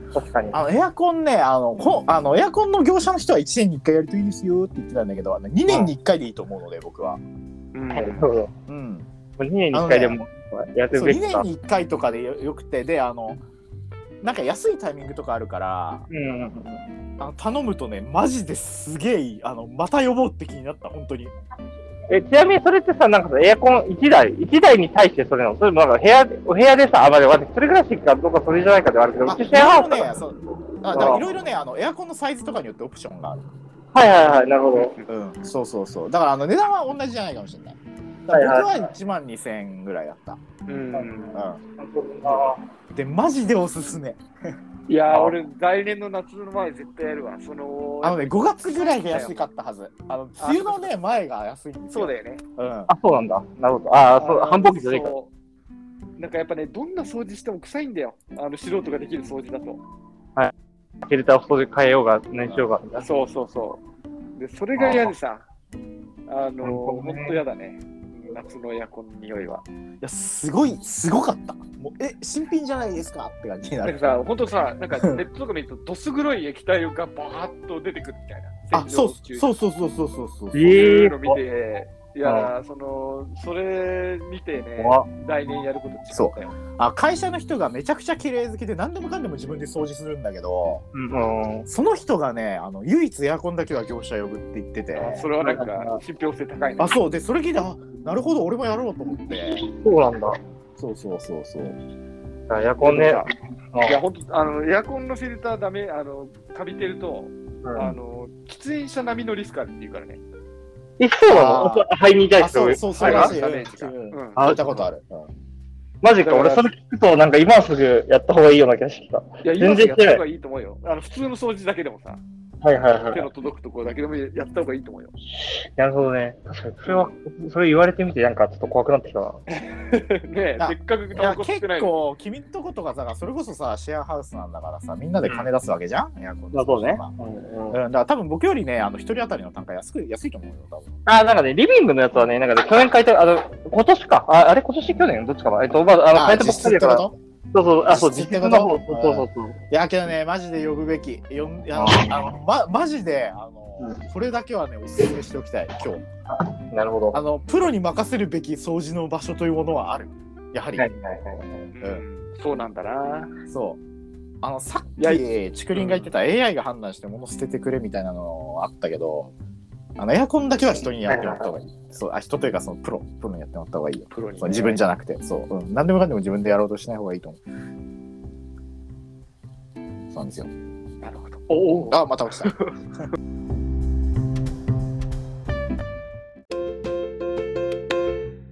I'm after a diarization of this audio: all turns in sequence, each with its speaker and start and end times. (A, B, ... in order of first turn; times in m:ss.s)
0:00.1-0:00.6 A
0:00.5-0:07.2 B
0:07.7-0:08.3 C
0:07.9-0:08.5 A
0:08.7-0:09.1 B
0:09.4-0:11.5 A
0:09.7-0:10.2 B
0:10.9-0:13.4 B
0:14.2-0:16.1 B
0:16.1-0:16.8 A
0:17.2-0:21.3 B
0:22.1-0:30.2 A
0:29.3-0:33.4 B
0:30.9-0:31.2 A
0:33.9-0:35.0 A
0:35.1-0:37.8 B
0:38.3-0:38.8 A
0:38.3-0:40.4 B
0:40.7-0:41.5 C
0:41.0-0:42.6 A
0:41.3-0:41.6 B
0:42.9-0:44.2 B
0:44.9-0:49.4 C
0:48.0-0:52.9 B
0:50.4-0:50.8 C
0:51.9-0:52.4 C
0:52.9-0:55.1 A
0:54.2-0:55.3 C
0:56.2-0:59.8 C
1:01.1-1:03.1 A
1:03.0-1:03.8 C
1:04.4-1:05.4 C
1:04.8-1:05.1 B
1:06.3-1:09.6 C
1:06.6-1:07.4 A
1:10.0-1:14.0 B
1:13.8-1:19.5 C
1:18.7-1:20.8 B
1:20.6-1:21.4 A
1:20.6-1:26.6 C
1:22.2-1:22.5 A
1:24.8-1:25.1 A
1:26.1-1:30.8 B
1:30.9-1:31.7 A
1:31.7-1:35.3 B
1:35.0-1:37.0 C
1:35.4-1:36.0 A
1:36.8-1:39.7 B
1:39.6-1:40.4 A
1:40.8-1:41.8 B
1:42.5-1:44.0 A
1:42.8-1:50.2 C
1:47.6-1:47.9 A
1:51.0-1:53.4 A
1:51.3-1:55.3 B
1:53.0-1:54.4 C
1:54.4-1:54.9 A
1:56.0-2:00.2 A
1:56.2-1:56.7 C
1:59.4-2:02.2 C
2:02.6-2:03.3 A
2:03.1-2:05.1 C
2:05.4-2:09.4 A
2:06.9-2:07.1 C
2:09.5-2:12.0 C
2:10.6-2:17.1 B
2:15.2-2:15.5 A
2:16.5-2:17.8 A
2:17.7-2:20.9 B
2:21.1-2:29.6 A
2:26.1-2:27.2 B
2:27.9-2:36.1 B
2:31.7-2:32.4 A
2:36.4-2:37.2 A
2:37.1-2:40.8 B
2:40.8-2:41.5 A
2:41.7-2:43.3 C
2:43.4-2:43.8 B
2:44.4-2:49.3 B
2:45.0-2:45.2 C
2:50.0-2:57.4 B
2:51.1-2:51.5 A
2:54.1-2:54.8 C
3:00.1-3:00.5 B
3:01.0-3:02.8 C
3:01.8-3:02.6 B